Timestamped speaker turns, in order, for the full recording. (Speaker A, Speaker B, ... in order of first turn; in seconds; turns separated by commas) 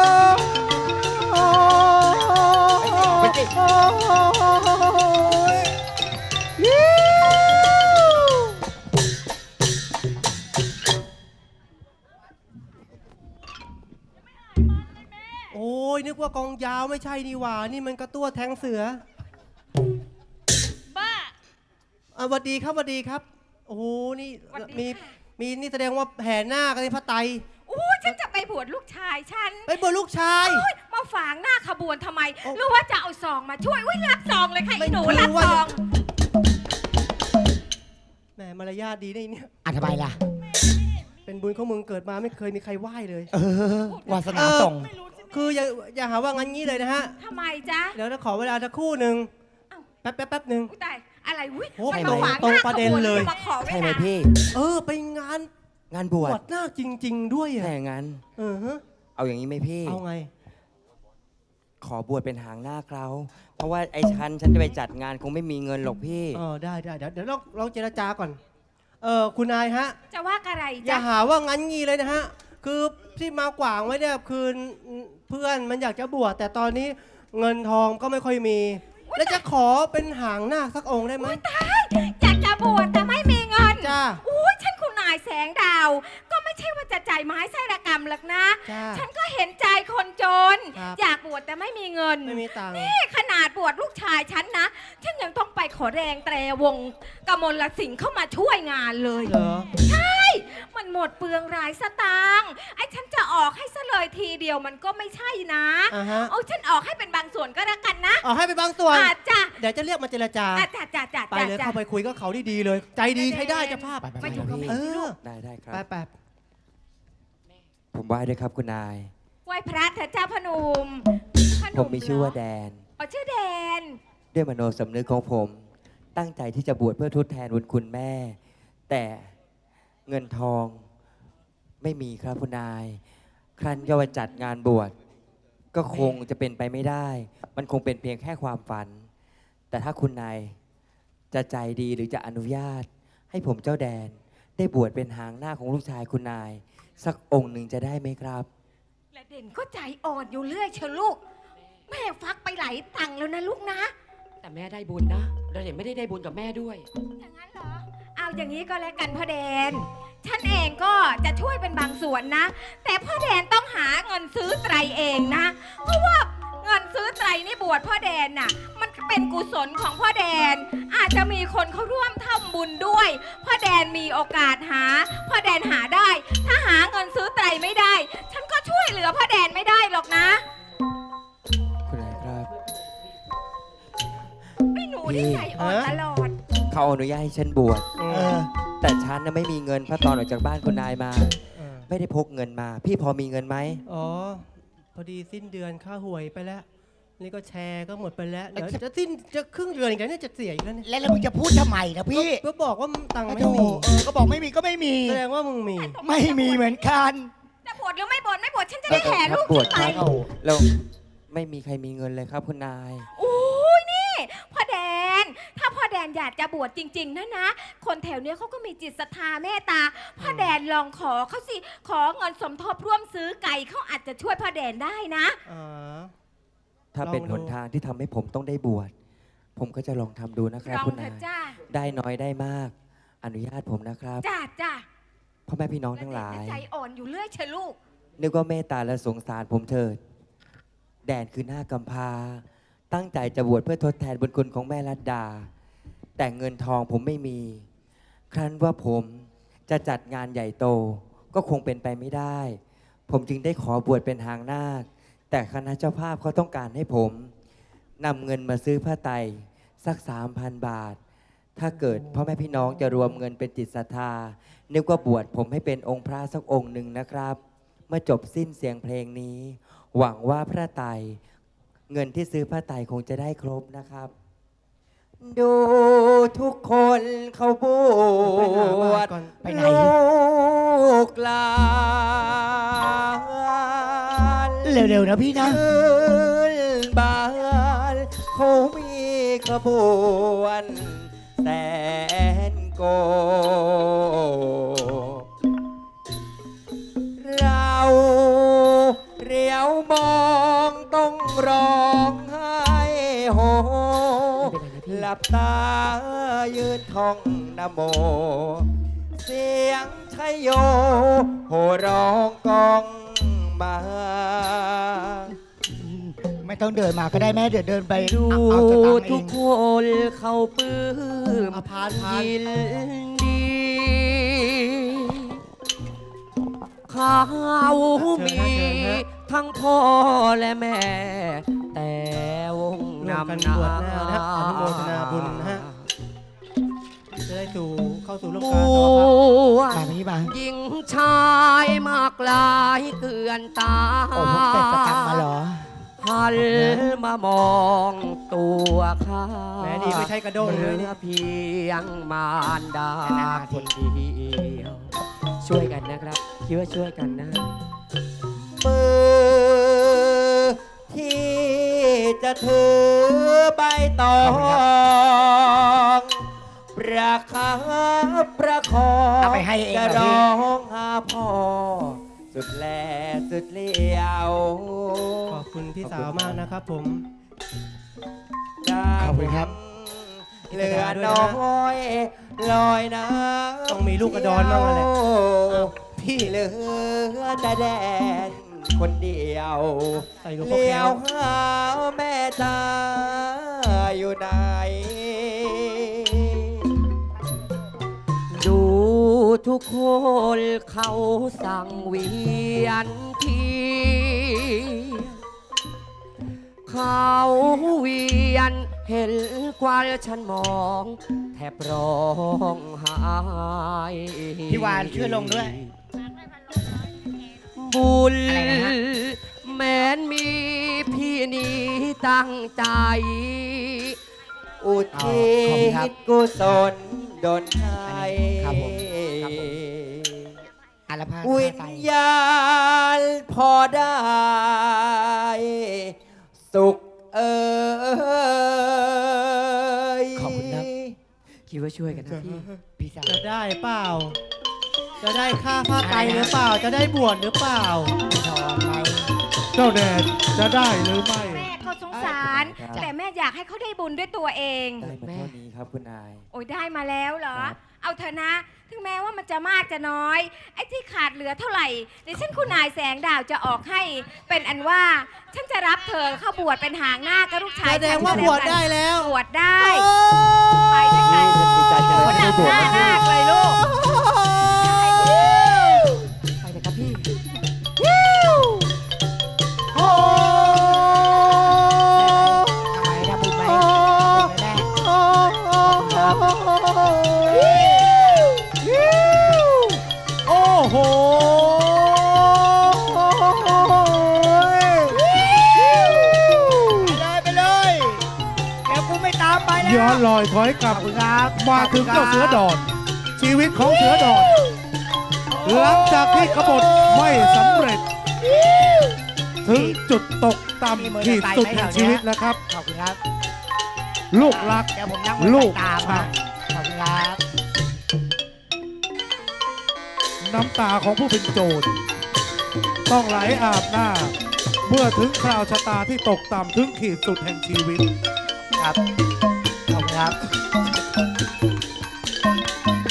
Speaker A: 2.8-3.5, Speaker B: 15.5-19.0, Speaker B: 22.1-27.4, Speaker C: 24.5-25.1, Speaker C: 27.7-29.7, Speaker B: 29.7-30.6, Speaker C: 30.4-35.8, Speaker B: 34.8-35.7, Speaker B: 38.4-39.5, Speaker D: 39.6-40.2, Speaker B: 41.2-43.3, Speaker D: 43.3-44.9, Speaker C: 43.9-44.4, Speaker B: 44.3-47.1, Speaker C: 47.2-48.0, Speaker B: 47.9-49.3, Speaker B: 50.0-50.7, Speaker C: 50.7-54.1, Speaker B: 51.8-53.3, Speaker A: 51.9-54.4, Speaker B: 54.5-55.5, Speaker A: 55.9-56.4, Speaker B: 56.2-57.7, Speaker A: 57.6-58.2, Speaker B: 58.4-58.8, Speaker A: 59.1-60.0, Speaker B: 59.9-60.3, Speaker A: 61.8-66.4, Speaker B: 66.3-68.4, Speaker B: 69.0-70.0, Speaker C: 70.1-71.1, Speaker B: 70.8-81.4, Speaker C: 79.1-79.4, Speaker C: 81.2-108.2, Speaker B: 83.8-84.2, Speaker B: 88.7-89.0, Speaker B: 90.7-91.0, Speaker B: 92.2-92.9, Speaker B: 99.2-99.7, Speaker B: 105.9-106.3, Speaker B: 108.2-110.7, Speaker C: 108.9-109.5, Speaker C: 110.5-111.8, Speaker B: 111.3-115.2, Speaker C: 113.1-115.1, Speaker D: 114.0-114.7, Speaker A: 114.2-115.8, Speaker B: 115.7-116.1, Speaker A: 117.9-119.1, Speaker C: 119.5-122.4, Speaker A: 121.7-122.8, Speaker C: 123.0-124.0, Speaker A: 124.3-125.6, Speaker A: 126.1-128.4, Speaker A: 128.9-129.3, Speaker A: 130.1-130.8, Speaker A: 131.8-133.0, Speaker A: 133.6-134.9, Speaker A: 135.7-139.1, Speaker B: 135.9-136.2, Speaker A: 139.7-140.5, Speaker A: 141.3-148.5, Speaker C: 149.1-151.2, Speaker C: 151.9-153.9, Speaker E: 154.4-156.8, Speaker C: 157.2-180.4, Speaker A: 181.9-182.5, Speaker C: 184.7-186.3, Speaker A: 185.0-185.5, Speaker B: 185.6-185.9, Speaker A: 186.7-187.9, Speaker B: 188.0-188.4, Speaker D: 188.1-188.5, Speaker A: 188.8-193.8, Speaker B: 191.6-191.9, Speaker B: 193.9-196.7, Speaker B: 197.2-200.8, Speaker D: 200.8-202.4, Speaker B: 202.1-204.0, Speaker D: 203.3-205.2, Speaker B: 205.0-206.0, Speaker C: 205.8-206.9, Speaker D: 206.0-207.3, Speaker C: 207.6-210.0, Speaker A: 208.9-210.8, Speaker D: 209.8-210.3, Speaker A: 211.3-213.1, Speaker C: 213.2-225.4, Speaker B: 220.2-220.6, Speaker B: 225.5-226.1, Speaker A: 226.9-228.9, Speaker B: 227.0-227.5, Speaker A: 229.6-234.2, Speaker C: 230.6-231.6, Speaker C: 234.2-234.8, Speaker A: 235.5-236.6, Speaker C: 236.0-237.8, Speaker A: 238.2-240.0, Speaker A: 241.0-245.5, Speaker A: 246.2-247.7, Speaker A: 248.3-257.3, Speaker A: 258.0-261.0, Speaker A: 261.6-271.2, Speaker A: 271.9-274.1, Speaker A: 275.2-284.8, Speaker B: 278.2-279.4, Speaker D: 279.4-279.9, Speaker D: 284.6-285.6, Speaker A: 285.4-295.2, Speaker A: 297.2-315.4, Speaker E: 304.4-305.1, Speaker D: 315.6-319.4, Speaker E: 317.9-325.4, Speaker B: 321.5-322.3, Speaker E: 326.9-335.9, Speaker B: 327.9-329.0, Speaker B: 333.0-335.6, Speaker B: 337.3-339.1, Speaker E: 338.3-345.2, Speaker D: 339.7-340.3, Speaker D: 344.1-345.7, Speaker E: 346.0-354.9, Speaker B: 346.4-346.8, Speaker B: 349.6-350.9, Speaker D: 353.0-353.7, Speaker E: 355.4-357.5, Speaker A: 358.5-376.5, Speaker D: 364.2-364.6, Speaker D: 369.2-370.2, Speaker B: 375.3-377.0, Speaker A: 378.6-396.6, Speaker D: 379.0-379.5, Speaker B: 380.5-381.4, Speaker B: 383.7-384.9, Speaker B: 390.1-391.0, Speaker E: 398.3-405.1, Speaker E: 406.6-415.7, Speaker D: 414.5-415.6, Speaker E: 417.6-423.9, Speaker D: 418.3-418.7, Speaker A: 424.6-430.4, Speaker D: 424.9-425.9, Speaker D: 427.9-429.5, Speaker D: 430.9-431.9, Speaker A: 431.2-435.9, Speaker A: 436.5-440.9, Speaker E: 440.2-440.6, Speaker D: 440.4-440.6, Speaker E: 441.5-442.5, Speaker A: 441.9-442.6, Speaker D: 442.8-443.2, Speaker B: 443.1-444.1, Speaker B: 445.0-447.9, Speaker D: 445.8-446.4, Speaker D: 448.0-449.1, Speaker F: 449.5-451.5, Speaker C: 451.2-454.9, Speaker A: 451.9-452.9, Speaker A: 454.8-456.2, Speaker E: 454.9-455.3, Speaker C: 456.3-469.9, Speaker A: 462.1-462.6, Speaker B: 467.6-469.1, Speaker C: 470.7-473.6, Speaker A: 471.0-473.0, Speaker A: 473.8-475.8, Speaker C: 474.6-475.3, Speaker E: 476.4-477.1, Speaker A: 480.1-481.1, Speaker D: 481.9-484.7, Speaker D: 485.6-486.4, Speaker A: 485.9-486.2, Speaker D: 487.2-488.3, Speaker F: 490.2-491.7, Speaker D: 494.5-498.0, Speaker D: 498.6-500.0, Speaker F: 499.6-504.4, Speaker D: 500.7-502.4, Speaker D: 503.7-504.3, Speaker D: 505.3-507.2, Speaker F: 505.4-507.8, Speaker D: 508.6-508.9, Speaker F: 509.4-512.4, Speaker D: 509.5-509.8, Speaker D: 510.7-513.0, Speaker F: 514.1-516.2, Speaker D: 514.2-517.2, Speaker F: 520.2-521.7, Speaker F: 522.9-524.1, Speaker F: 524.6-527.9, Speaker D: 529.7-530.2